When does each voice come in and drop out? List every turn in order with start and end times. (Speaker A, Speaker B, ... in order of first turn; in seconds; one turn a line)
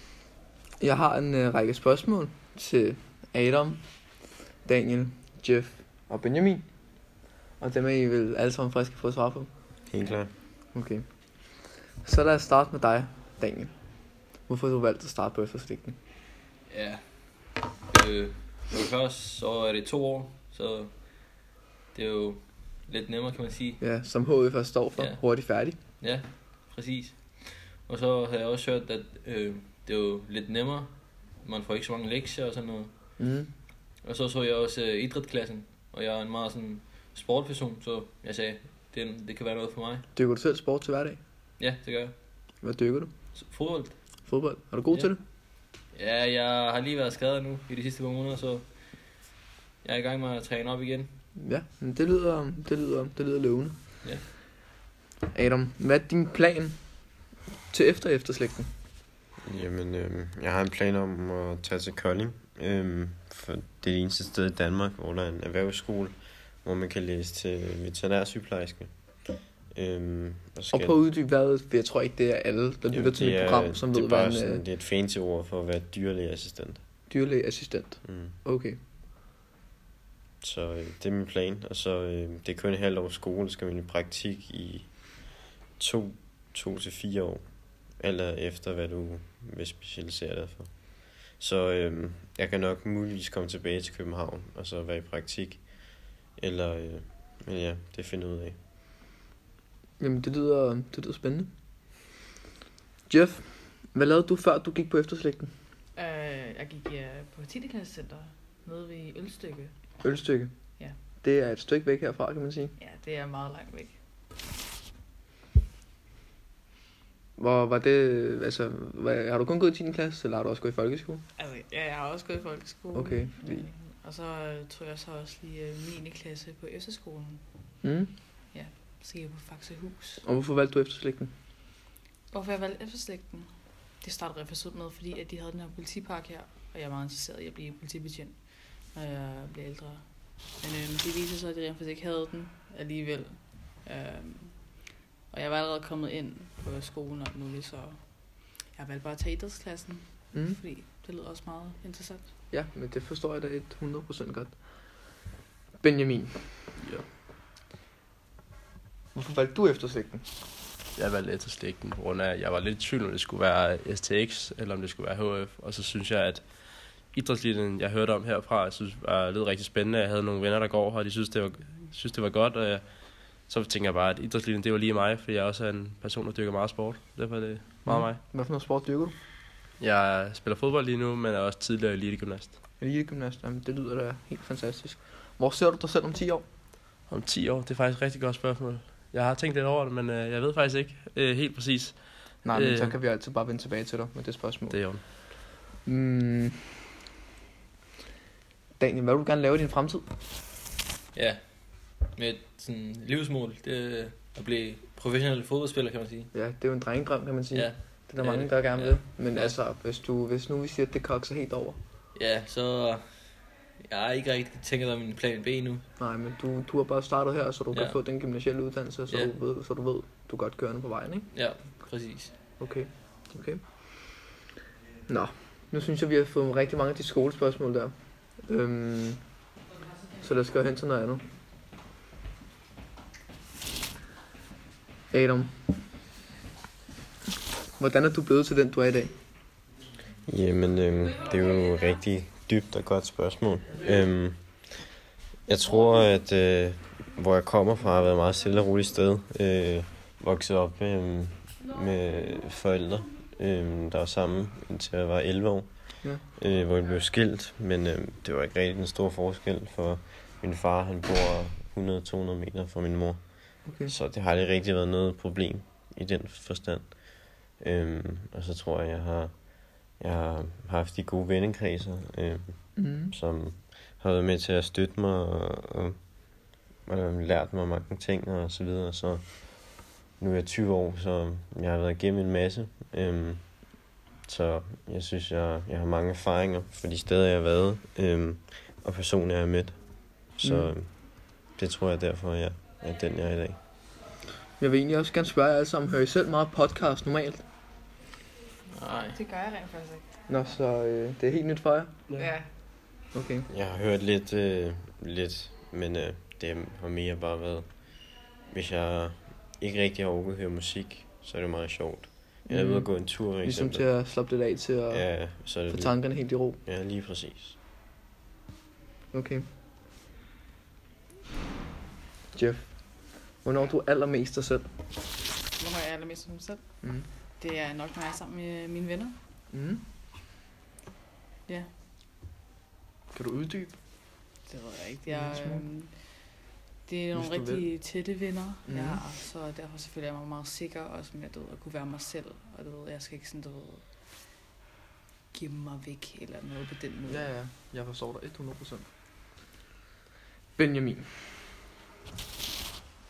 Speaker A: 0.8-4.1
Speaker A: 4.6-6.7
Speaker A: 7.6-9.5
Speaker B: 9.9-10.3
Speaker A: 10.7-11.1
Speaker A: 12.0-13.7
Speaker A: 14.4-16.0
Speaker C: 16.7-21.3
Speaker C: 21.9-23.8
Speaker A: 23.8-25.8
Speaker C: 25.0-25.3
Speaker C: 26.0-32.9
Speaker A: 33.2-33.5
Speaker C: 34.0-40.1
Speaker A: 40.1-41.2
Speaker C: 41.6-42.1
Speaker A: 42.6-43.1
Speaker C: 43.3-44.0
Speaker A: 44.2-45.2
Speaker C: 45.9-49.2
Speaker C: 49.8-51.1
Speaker A: 51.4-53.8
Speaker A: 55.3-58.7
Speaker B: 59.4-71.0
Speaker A: 70.7-74.6
Speaker B: 72.9-76.8
Speaker A: 77.1-78.8
Speaker B: 78.0-78.3
Speaker B: 80.4-98.6
Speaker A: 100.0-101.5
Speaker A: 103.1-105.5
Speaker D: 106.0-110.0
Speaker A: 110.0-110.6
Speaker A: 111.1-112.7
Speaker D: 112.8-114.0
Speaker A: 117.4-121.2
Speaker D: 121.4-127.4
Speaker A: 122.9-123.7
Speaker A: 127.8-128.1
Speaker D: 128.5-130.2
Speaker A: 130.2-131.3
Speaker D: 132.3-152.3
Speaker A: 150.3-150.6
Speaker A: 152.5-155.1
Speaker A: 155.8-156.5
Speaker E: 156.8-157.1
Speaker A: 159.1-160.2
Speaker E: 161.0-178.2
Speaker A: 177.9-179.1
Speaker E: 179.8-182.6
Speaker A: 182.8-186.4
Speaker E: 187.1-193.0
Speaker A: 192.4-194.8
Speaker E: 194.7-195.0
Speaker A: 195.8-196.7
Speaker A: 198.8-200.1
Speaker C: 201.1-206.3
Speaker A: 206.3-211.8
Speaker C: 207.5-209.6
Speaker C: 212.1-215.8
Speaker A: 216.0-221.3
Speaker C: 217.7-218.0
Speaker C: 221.3-222.4
Speaker A: 222.6-223.6
Speaker A: 225.1-229.4
Speaker A: 230.2-231.2
Speaker A: 235.1-235.5
Speaker A: 237.8-239.1
Speaker B: 240.3-244.8
Speaker B: 245.5-293.6
Speaker A: 263.6-263.9
Speaker A: 272.8-273.1
Speaker A: 290.4-290.7
Speaker A: 294.6-297.4
Speaker C: 298.7-299.2
Speaker D: 299.1-300.1
Speaker A: 300.3-301.9
Speaker D: 302.2-302.5
Speaker A: 303.1-303.5
Speaker B: 303.5-313.9
Speaker A: 312.5-316.6
Speaker B: 314.9-317.6
Speaker A: 319.1-319.5
Speaker A: 322.3-324.7
Speaker D: 325.5-329.2
Speaker A: 326.8-327.1
Speaker A: 329.5-329.8
Speaker D: 331.5-331.7
Speaker A: 333.1-333.8
Speaker D: 334.4-343.9
Speaker A: 335.1-335.6
Speaker A: 337.1-337.7
Speaker A: 338.6-339.0
Speaker D: 345.3-347.3
Speaker A: 347.1-348.9
Speaker A: 350.6-351.1